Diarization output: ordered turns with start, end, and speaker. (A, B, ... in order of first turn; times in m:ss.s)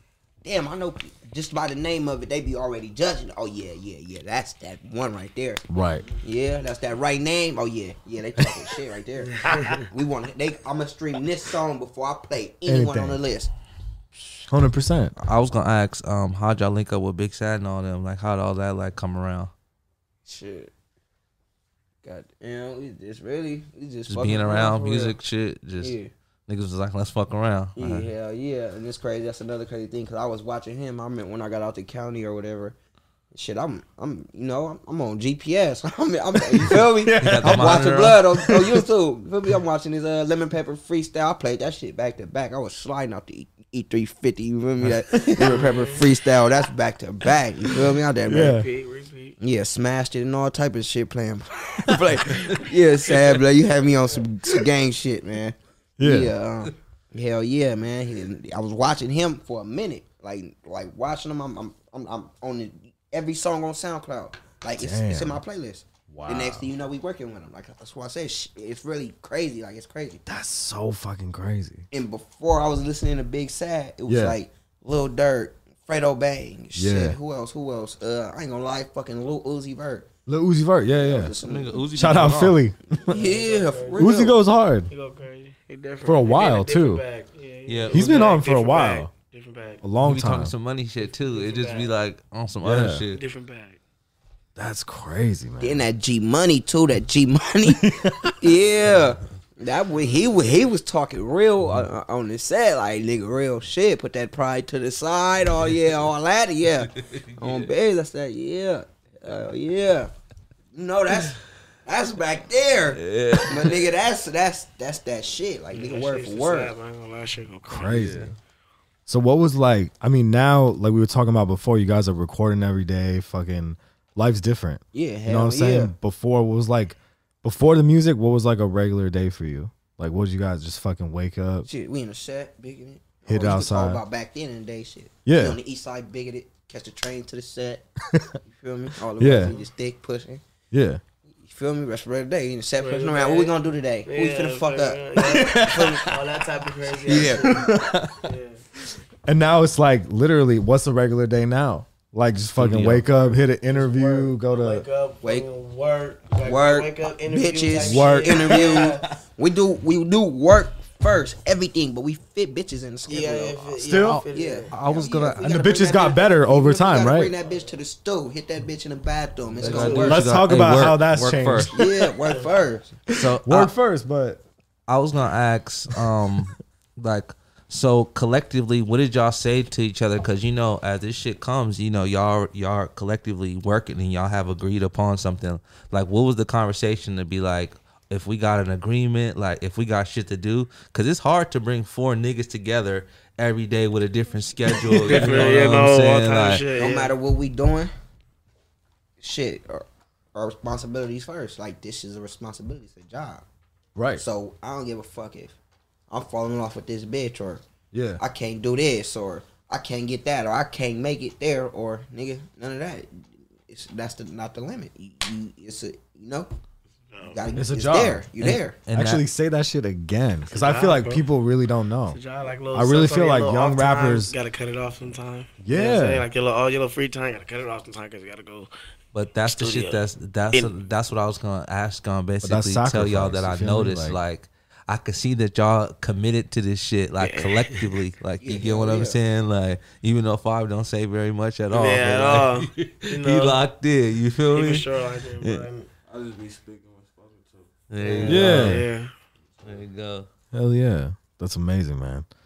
0:00.4-0:05.6 A
0:05.7-0:06.1 B
0:06.2-0:13.5 A
0:09.4-0:09.8 B
0:12.7-0:13.2 B
0:14.5-0:15.1 B
0:15.2-0:19.5 C
0:20.2-0:20.7 A
0:22.0-0:25.1 A
0:24.1-0:25.9 C
0:25.8-0:26.1 A
0:26.5-0:28.1 C
0:27.8-0:32.8 A
0:33.3-0:48.6 A
0:36.5-0:38.8 B
0:37.2-0:38.3 C
0:45.1-0:45.4 B
0:45.4-0:46.0 D
0:47.7-0:48.7 B
0:48.3-0:49.4 D
0:49.4-1:10.2 A
0:56.0-0:56.3 B
1:04.8-1:05.4 B
1:06.1-1:06.7 B
1:10.2-1:11.8 B
1:11.9-1:20.1 A
1:14.1-1:14.4 B
1:16.8-1:17.2 B
1:20.2-1:21.3 B
1:20.9-1:21.8 A
1:21.4-1:22.6 C
1:21.9-1:23.2 B
1:23.0-1:24.2 D
1:23.1-1:24.3 A
1:24.0-1:24.9 B
1:24.9-1:29.8 D
1:26.0-1:27.0 B
1:27.6-1:28.2 C
1:27.9-1:29.1 B
1:29.8-1:30.5 B
1:30.0-1:33.2 C
1:31.2-1:31.9 D
1:32.6-1:33.0 B
1:33.1-1:33.8 D
1:34.6-1:35.8 B
1:35.6-1:50.1 A
1:37.6-1:38.4 B
1:47.0-1:47.7 C
1:50.7-1:56.7 A
1:52.9-1:53.9 C
1:55.7-1:58.2 D
1:57.7-1:58.3 B
1:57.9-1:58.3 C
1:59.1-2:11.7 B
2:04.9-2:05.9 A
2:11.7-2:17.9 A
2:13.2-2:14.0 B
2:15.2-2:15.6 B
2:18.4-2:20.4 A
2:19.2-2:19.6 B
2:20.7-2:21.0 B
2:21.4-2:25.1 A
2:22.8-2:28.6 D
2:25.2-2:26.2 B
2:27.0-2:27.6 A
2:27.5-2:28.1 B
2:29.2-2:34.8 B
2:32.6-2:33.3 C
2:33.7-2:39.0 D
2:36.4-2:43.8 A
2:37.8-2:38.7 B
2:43.1-2:44.7 D
2:43.8-2:44.2 B
2:43.9-2:45.5 C
2:44.3-2:50.2 A
2:45.3-2:46.1 D
2:45.4-2:47.3 B
2:49.6-2:51.7 C
2:49.6-2:50.2 D
2:50.0-2:52.1 B
2:51.7-2:53.0 A
2:53.1-2:54.4 B
2:53.1-2:53.7 C
2:54.9-3:16.6 C
3:14.7-3:15.6 B
3:15.0-3:17.1 D
3:16.8-3:17.9 A
3:19.2-3:23.4 A
3:24.0-3:24.2 B
3:24.1-3:25.5 A
3:26.1-3:27.6 A
3:27.9-3:28.2 B
3:28.2-3:36.5 A
3:37.1-3:37.4 D
3:37.2-3:38.8 A
3:37.5-3:38.2 B
3:38.4-3:39.2 C
3:38.9-3:42.2 B
3:40.5-3:41.2 D
3:42.1-3:48.7 D
3:42.7-3:44.3 B
3:45.6-3:46.2 B
3:49.1-4:04.9 C
3:49.4-3:50.7 D
3:52.4-3:54.2 B
3:57.2-3:57.9 D
3:58.4-3:59.2 A
4:01.7-4:03.6 D
4:04.5-4:05.9 D
4:05.4-4:05.6 C
4:06.1-4:08.4 E
4:07.9-4:08.8 C
4:08.0-4:09.1 D
4:08.2-4:08.8 B
4:09.5-4:09.8 E
4:09.6-4:10.3 C
4:10.5-4:12.3 B